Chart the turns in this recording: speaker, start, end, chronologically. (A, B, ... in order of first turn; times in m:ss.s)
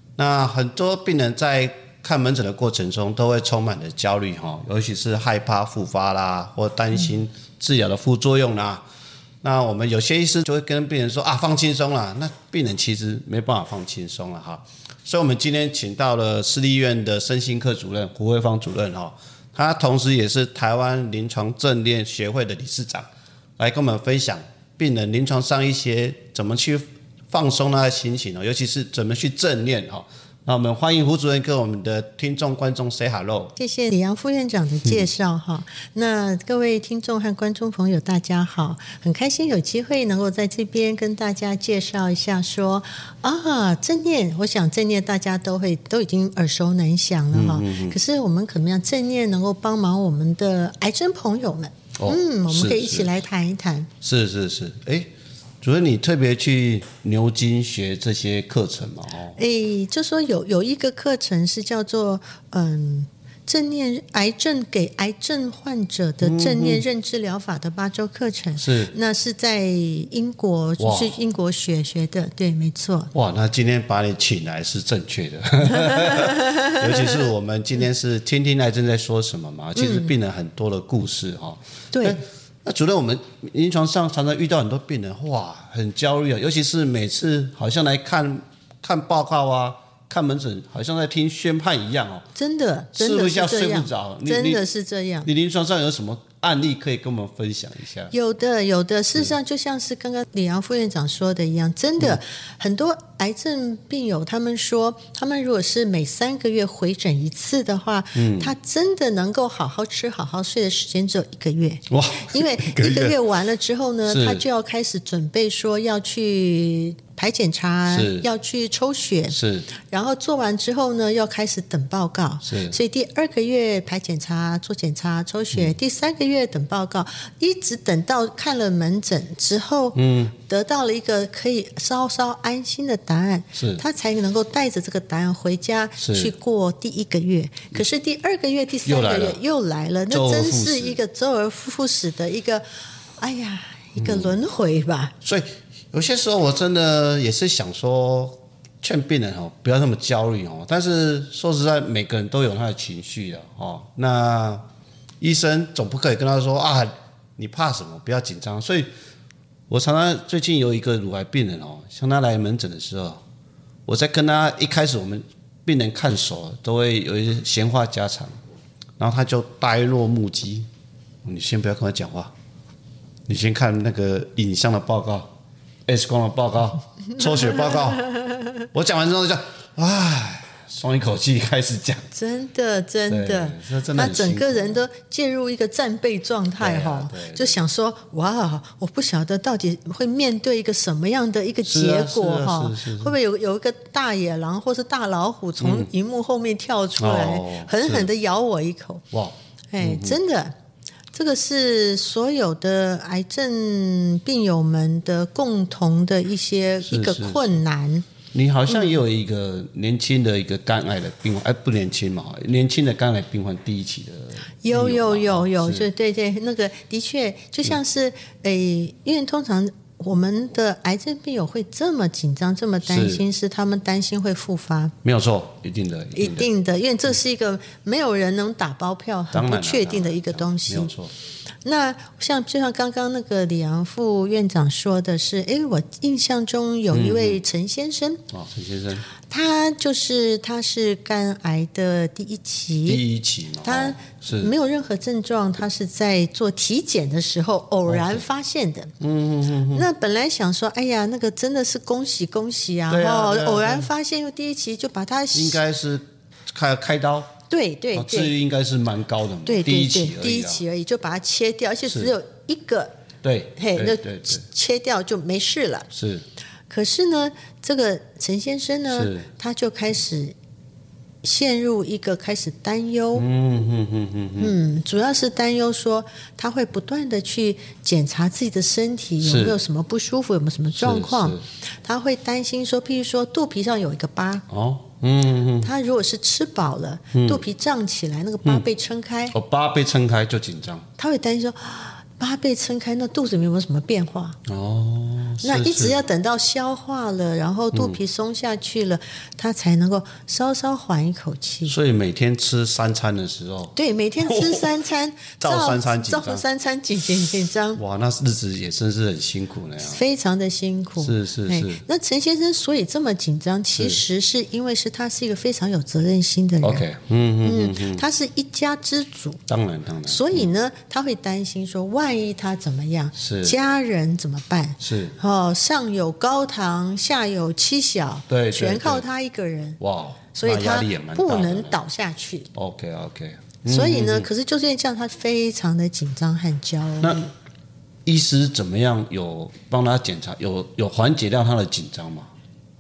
0:00.2-0:08.8 A
0:09.4-0:33.5 A
0:33.6-0:53.9 B
0:47.3-0:48.0 A
0:52.0-0:53.1 A
0:54.0-0:55.1 A
0:55.6-0:59.4 A
0:59.4-1:13.1 B
1:06.2-1:06.8 A
1:08.6-1:08.9 A
1:10.8-1:11.1 A
1:13.1-1:32.3 A
1:15.7-1:17.2 B
1:19.8-1:20.1 B
1:21.9-1:22.2 B
1:32.4-1:35.3 B
1:33.0-1:34.6 A
1:35.2-1:38.1 A
1:38.1-2:22.6 B
1:48.1-1:48.5 A
1:51.9-1:53.2 A
1:54.0-1:54.4 A
1:57.9-1:58.3 A
1:59.3-1:59.7 A
2:02.4-2:02.8 A
2:09.9-2:10.3 A
2:13.5-2:13.8 A
2:16.0-2:16.3 A
2:18.8-2:19.4 A
2:20.1-2:21.0 A
2:23.2-2:25.1 B
2:24.0-2:24.4 A
2:25.2-2:34.6 A
2:35.2-2:38.9 A
2:39.7-2:43.2 A
2:43.8-2:48.3 A
2:49.0-2:50.7 A
2:51.2-2:52.3 A
2:53.3-2:55.3 A
2:55.9-2:58.2 A
2:57.5-2:58.4 B
2:58.7-3:02.1 A
3:02.1-3:19.0 B
3:03.1-3:04.8 A
3:06.6-3:07.6 A
3:11.6-3:13.2 A
3:15.6-3:15.9 A
3:17.0-3:18.1 A
3:19.1-3:20.2 A
3:19.7-3:20.5 B
3:21.1-3:28.0 B
3:26.8-3:27.6 A
3:28.3-3:35.9 A
3:28.7-3:29.0 B
3:34.6-3:44.9 B
3:42.8-3:43.2 A
3:45.0-3:46.5 A
3:46.2-3:50.9 B
3:49.3-3:51.1 A
3:51.6-3:58.2 B
3:56.9-3:57.4 A
3:58.3-3:59.1 A
3:59.2-4:03.0 B
4:02.8-4:04.5 A
4:03.6-4:08.9 B
4:07.9-4:08.2 A
4:09.0-4:09.9 A
4:09.7-4:15.6 B
4:12.9-4:13.9 A
4:15.3-4:17.3 A
4:17.5-4:18.3 B
4:17.9-4:20.6 A
4:19.4-4:22.9 B
4:21.9-4:22.1 A
4:23.2-4:24.4 A
4:23.6-4:25.9 B
4:25.9-4:26.2 A
4:26.7-4:30.3 B
4:28.9-4:29.3 A
4:31.2-4:33.2 B
4:33.1-4:34.5 A
4:34.4-4:44.4 B
4:39.2-4:39.6 A
4:40.7-4:41.4 A
4:44.5-4:45.7 A
4:45.6-4:49.3 B
4:47.1-4:47.4 A
4:49.3-4:50.9 A
4:51.0-4:54.4 B
4:54.4-4:56.0 A
4:55.4-5:01.7 B
4:57.7-4:58.0 A
5:01.6-5:04.7 A
5:03.8-5:07.8 B
5:05.4-5:06.4 A
5:07.7-5:10.0 A
5:09.8-5:16.8 B
5:11.0-5:11.8 A
5:16.6-5:18.0 A
5:17.4-5:19.4 B
5:19.5-5:20.5 A
5:20.0-5:29.8 B
5:23.2-5:23.6 A
5:24.8-5:25.2 A
5:28.3-5:29.0 A
5:29.8-5:31.8 A
5:30.3-5:32.5 B
5:32.5-5:34.3 A
5:33.7-5:37.3 B
5:37.0-5:37.2 A
5:38.0-5:42.3 A